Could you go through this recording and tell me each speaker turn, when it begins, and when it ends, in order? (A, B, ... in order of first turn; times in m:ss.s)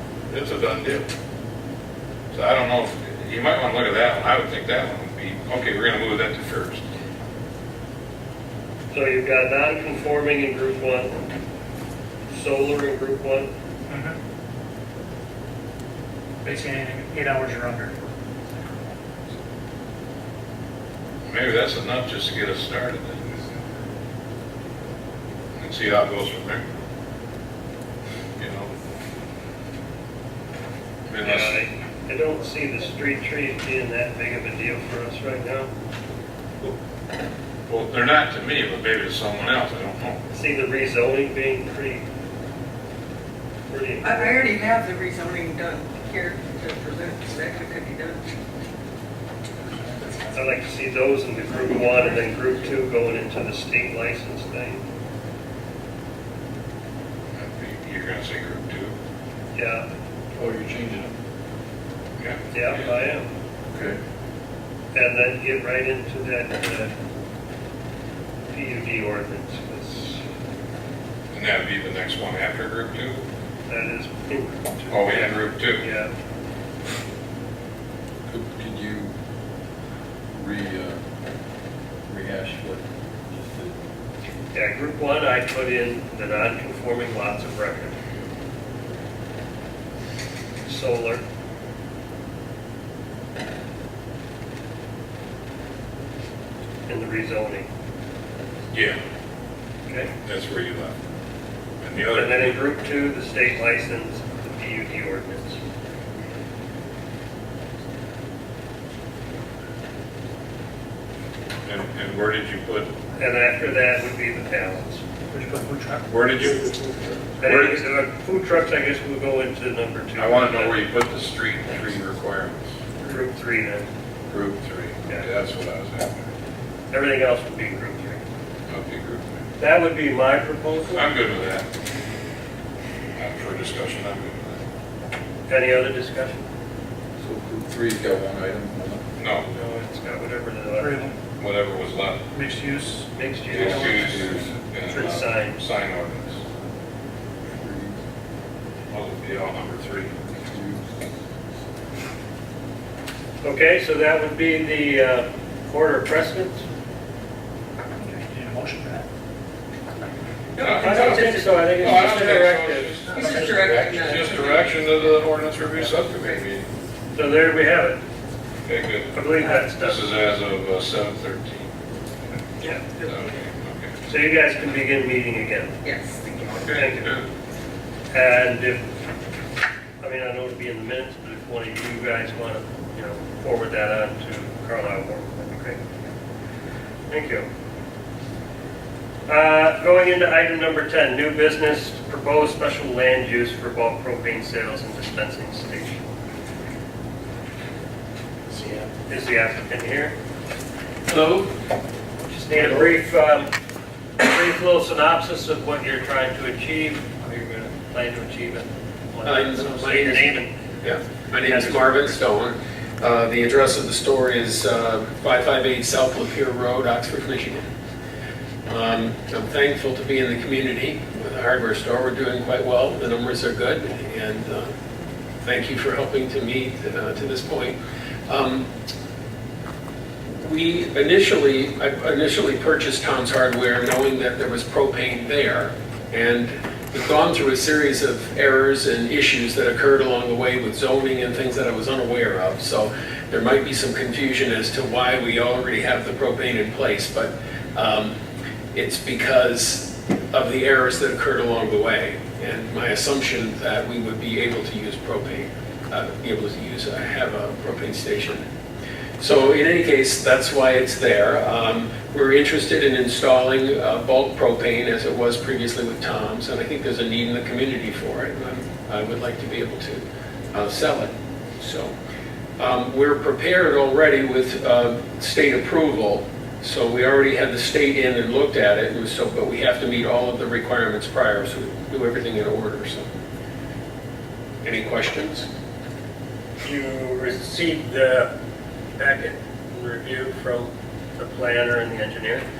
0:00.3-0:01.1 A
0:02.3-0:06.8 A
0:08.9-0:11.2 B
0:12.3-0:13.5 B
0:13.9-0:14.2 C
0:16.4-0:18.0 C
0:18.5-0:19.0 C
0:21.2-0:23.3 A
0:25.6-0:26.6 A
0:28.4-0:28.7 A
0:31.1-0:31.6 A
0:31.2-0:35.7 B
0:37.7-0:40.2 A
0:40.3-0:42.0 B
0:43.7-0:44.5 B
0:44.0-0:48.3 D
0:49.6-0:50.4 C
0:50.3-0:54.8 B
0:57.3-0:58.9 A
0:59.5-0:59.9 B
1:00.4-1:01.1 E
1:02.5-1:03.3 B
1:03.7-1:04.0 E
1:04.9-1:06.9 B
1:08.5-1:10.2 B
1:11.3-1:13.2 A
1:13.7-1:16.1 B
1:14.9-1:15.8 A
1:18.3-1:19.1 E
1:20.3-1:21.0 E
1:22.1-1:23.8 E
1:24.5-1:27.9 B
1:30.6-1:31.2 B
1:36.9-1:37.7 B
1:38.7-1:39.0 A
1:39.9-1:40.1 B
1:40.2-1:41.0 A
1:41.8-1:42.6 A
1:42.1-1:45.6 B
1:51.6-1:52.9 A
1:53.2-1:55.0 B
1:55.3-1:56.1 C
1:56.1-1:57.8 A
1:57.4-2:00.8 B
2:00.2-2:02.7 A
2:03.0-2:03.9 B
2:04.3-2:06.2 A
2:06.9-2:08.2 B
2:08.7-2:09.4 A
2:09.6-2:11.1 B
2:10.9-2:11.7 A
2:13.2-2:14.6 A
2:15.5-2:16.4 B
2:17.2-2:19.0 E
2:19.2-2:19.5 A
2:19.5-2:21.1 B
2:20.8-2:21.2 C
2:21.4-2:22.2 A
2:22.3-2:25.0 C
2:23.1-2:24.3 B
2:23.5-2:26.4 A
2:24.0-2:24.5 E
2:24.9-2:25.6 B
2:27.5-2:28.0 E
2:28.9-2:30.3 A
2:30.5-2:30.9 E
2:33.4-2:36.6 B
2:38.0-2:39.1 C
2:40.5-2:42.4 D
2:40.6-2:46.7 A
2:40.6-2:43.7 B
2:43.1-2:44.7 D
2:47.1-2:48.0 B
2:48.6-2:51.7 A
2:49.1-2:50.0 B
2:52.6-2:53.4 D
2:53.0-2:54.0 A
2:54.1-2:55.7 B
2:55.8-2:56.7 D
2:56.4-2:57.3 A
2:56.7-2:57.2 B
2:58.1-2:58.8 B
3:00.0-3:05.8 B
3:07.1-3:07.5 B
3:09.3-3:16.0 B
3:18.6-3:18.8 F
3:19.0-3:20.1 B
3:21.1-3:21.5 F
3:22.3-3:23.5 B
3:24.2-3:30.5 B
3:29.2-3:37.7 F
3:31.4-3:32.2 B
3:38.7-3:44.7 F
3:45.4-3:47.8 F
3:48.3-3:48.7 F
3:50.4-4:08.1 F
4:08.7-4:18.4 F
4:19.2-4:31.9 F
4:32.6-4:43.0 F
4:44.6-4:45.5 F
4:46.6-4:48.3 B
4:49.0-4:52.4 B